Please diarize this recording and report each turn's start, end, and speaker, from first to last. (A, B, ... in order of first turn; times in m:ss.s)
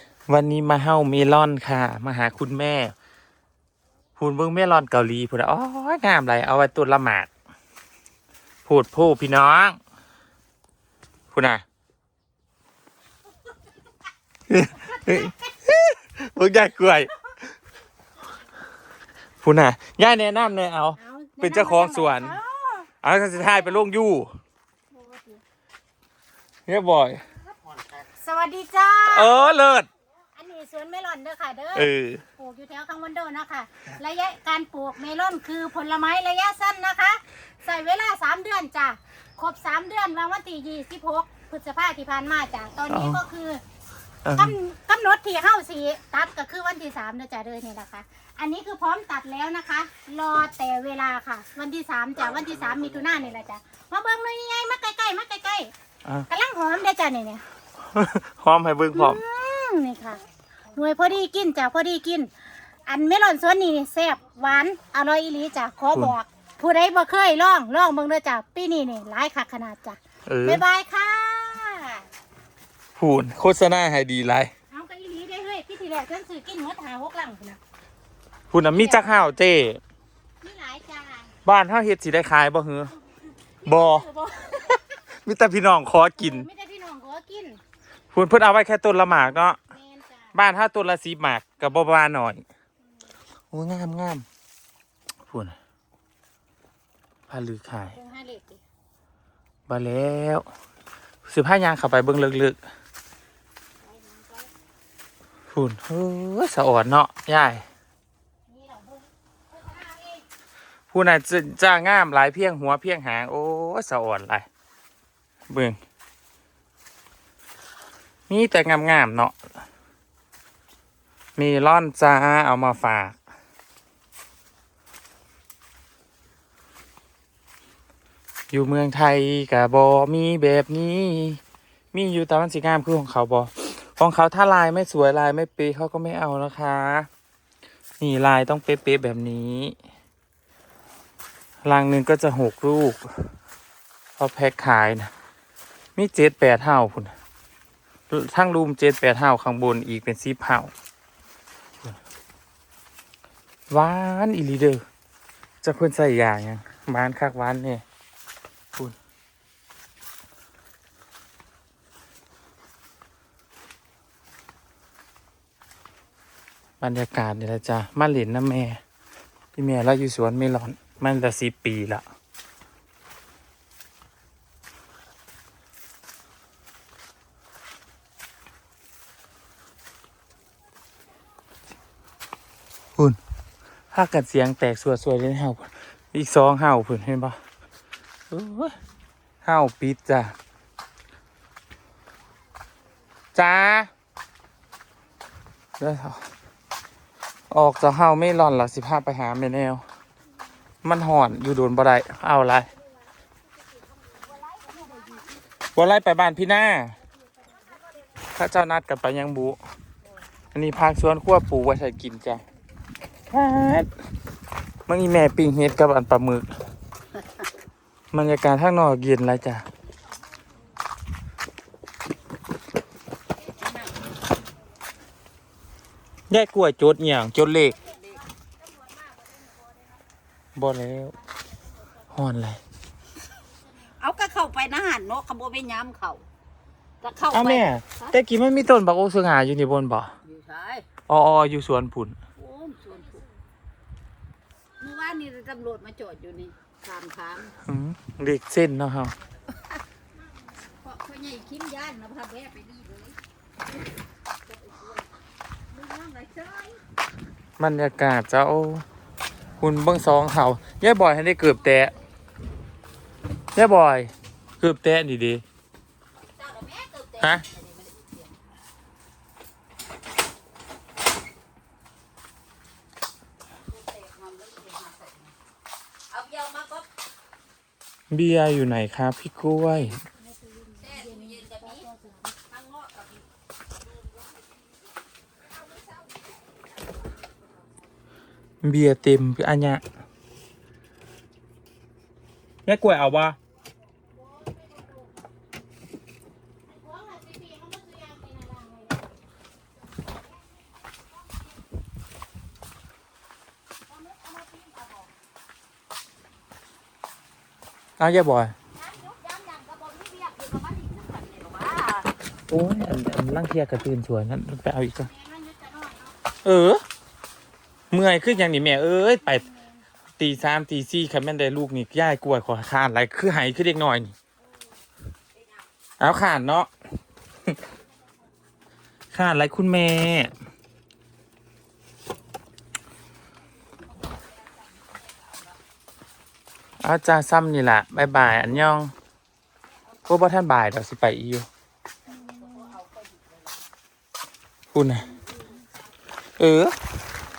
0:00.3-0:02.9 A
0:04.2-0:07.3 A
0:08.6-0:09.8 A
0:11.3-0:11.6 A
0:14.5-0:17.1 A
0:14.9-0:15.3 B
0:19.4-0:22.4 A
0:21.0-0:23.8 B
0:23.0-0:24.3 A
0:24.9-0:25.4 B
0:26.7-0:27.2 A
0:28.2-0:29.5 B
0:29.0-0:29.9 A
0:30.4-0:43.6 B
0:31.7-0:32.2 A
0:42.9-0:43.2 A
0:44.2-0:44.6 A
0:44.4-0:55.7 B
0:56.3-0:57.4 B
0:57.8-0:59.2 A
0:58.9-1:02.3 B
1:02.9-1:12.1 B
1:10.2-1:10.6 A
1:13.0-1:14.5 A
1:14.7-1:17.6 B
1:18.5-1:19.8 A
1:18.6-1:19.3 B
1:20.4-1:21.3 B
1:21.4-1:22.9 A
1:23.6-1:25.0 B
1:23.6-1:24.1 A
1:25.2-1:26.4 A
1:26.2-1:27.6 B
1:28.1-1:29.6 A
1:29.7-1:30.3 B
1:30.3-1:32.4 A
1:33.5-1:34.2 A
1:35.3-1:35.6 A
1:37.3-1:38.0 A
1:37.9-1:38.6 B
1:39.7-1:40.4 A
1:41.2-1:42.6 A
1:43.8-1:44.5 B
1:45.5-1:47.6 A
1:48.5-1:50.2 B
1:50.9-1:54.4 A
1:55.5-1:55.8 A
1:58.3-1:59.3 A
2:01.4-2:03.2 A
2:08.5-2:11.4 A
2:11.9-2:17.1 A
2:18.0-2:19.8 A
2:21.6-2:23.3 A
2:24.2-2:25.1 A
2:26.0-2:27.1 A
2:28.1-2:30.7 A
2:33.7-2:34.8 A
2:35.6-2:37.8 A
2:46.8-2:48.8 A
2:49.5-2:52.0 A
3:03.9-3:07.4 A
3:08.3-3:08.7 A
3:09.4-3:10.4 A
3:13.3-3:13.9 A
3:15.8-3:16.2 A
3:17.5-3:19.8 A
3:20.8-3:22.7 A
3:24.5-3:25.2 C
3:25.7-3:27.0 A
3:28.3-3:29.6 A
3:30.5-3:32.4 A
3:33.3-3:33.9 A
3:34.9-3:36.4 A
3:38.1-3:39.6 A
3:43.5-3:44.1 C
3:46.3-3:47.8 A
3:47.8-3:48.2 C
3:48.8-3:49.5 B
3:50.6-3:51.2 A
3:52.1-3:52.6 A
3:54.0-3:56.2 C
3:57.0-3:58.1 C
3:57.3-4:00.1 A
4:00.2-4:00.8 C
4:01.1-4:02.2 A
4:02.4-4:03.2 C
4:04.8-4:07.6 C
4:07.6-4:09.1 A
4:10.7-4:13.2 C
4:14.5-4:15.1 C
4:15.7-4:16.8 C
4:17.6-4:18.8 A
4:19.6-4:21.9 A
4:23.5-4:25.4 A
4:26.3-4:28.4 C
4:33.7-4:35.3 C
4:36.1-4:36.9 C
4:38.1-4:40.0 A
4:40.4-4:42.2 B
4:40.8-4:41.9 C
4:42.5-4:43.3 C
4:44.0-4:44.5 C
4:48.6-4:49.8 A
4:52.6-4:53.4 A
4:54.3-4:55.1 B
4:56.7-4:59.0 B
5:08.0-5:08.5 A
5:08.9-5:12.1 C
5:12.5-5:15.1 A
5:15.0-5:16.1 B
5:16.4-5:16.8 A
5:17.9-5:19.4 A
5:19.3-5:19.8 B
5:20.2-5:24.1 A
5:26.0-5:26.7 A
5:29.1-5:30.3 A
5:34.1-5:35.6 C
5:36.8-5:38.9 A
5:40.0-5:41.5 A
5:42.1-5:42.8 B
5:42.2-5:43.6 C
5:44.7-5:45.1 A
5:46.4-5:46.7 A